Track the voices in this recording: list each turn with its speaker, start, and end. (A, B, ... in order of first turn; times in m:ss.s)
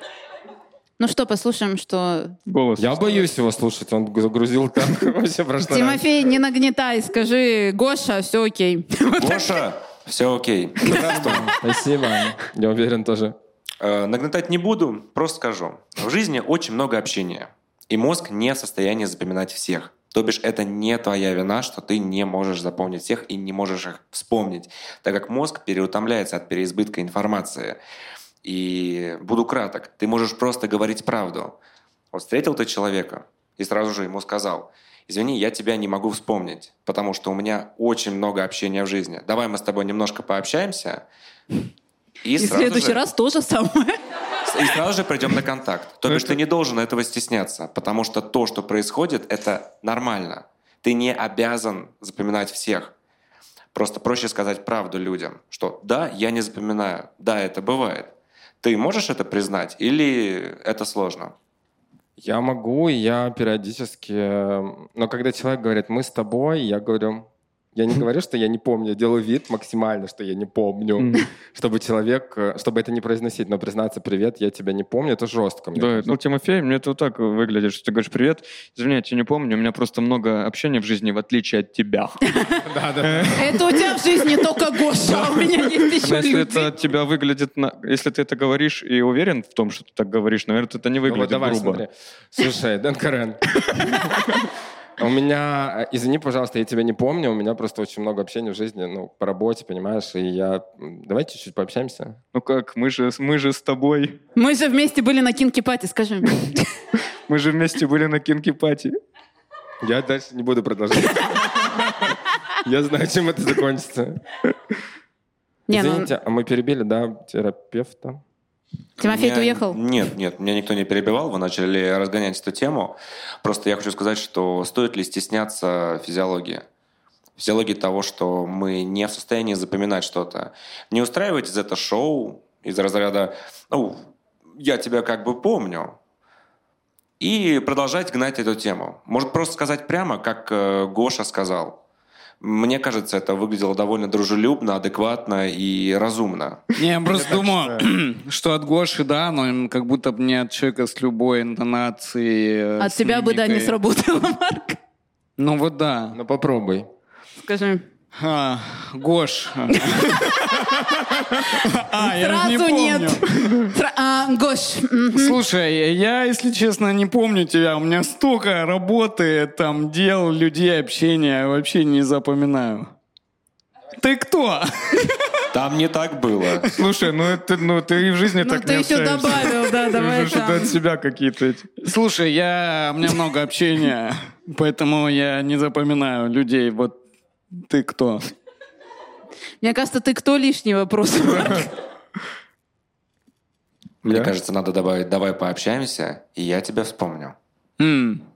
0:01.0-0:02.4 A
0:02.5-0:03.1 B
0:02.8-0:06.0 C
0:05.7-0:09.6 A
0:09.2-0:11.5 D
0:10.9-0:11.4 A
0:10.9-0:13.4 C
0:13.8-0:27.8 D
0:28.4-0:31.6 D
0:32.1-0:41.0 D
0:42.2-0:43.0 D
0:42.4-0:44.0 A
0:44.5-0:52.9 D
0:46.1-0:46.4 B
0:53.7-1:01.4 D
1:02.2-1:16.2 C
1:11.0-1:11.2 B
1:15.8-1:22.2 B
1:22.6-1:23.7 C
1:23.0-1:23.6 B
1:23.4-1:26.7 A
1:26.0-1:31.8 B
1:31.1-1:34.4 C
1:35.0-1:42.2 C
1:42.3-1:44.2 B
1:44.4-1:46.7 A
1:47.3-1:49.0 B
1:49.8-1:51.9 C
1:52.6-1:54.2 C
1:55.7-1:56.1 A
1:55.7-1:58.2 C
1:59.0-1:59.8 A
1:59.0-2:06.6 D
2:07.4-2:16.0 D
2:17.2-2:21.8 D
2:22.4-2:26.6 D
2:26.8-2:33.8 E
2:27.1-2:27.7 C
2:32.8-2:34.8 A
2:35.4-2:36.2 E
2:36.1-2:36.9 C
2:37.4-2:37.8 A
2:38.2-2:40.7 E
2:39.8-2:40.9 A
2:41.3-2:43.7 E
2:41.9-2:45.4 A
2:45.2-2:52.9 E
2:54.0-2:55.1 E
2:55.5-2:56.7 D
2:56.7-3:01.9 B
2:58.4-3:00.8 A
3:01.8-3:07.0 E
3:07.6-3:08.3 E
3:09.6-3:11.7 A
3:14.0-3:17.4 D
3:14.0-3:14.3 B
3:17.8-3:18.2 E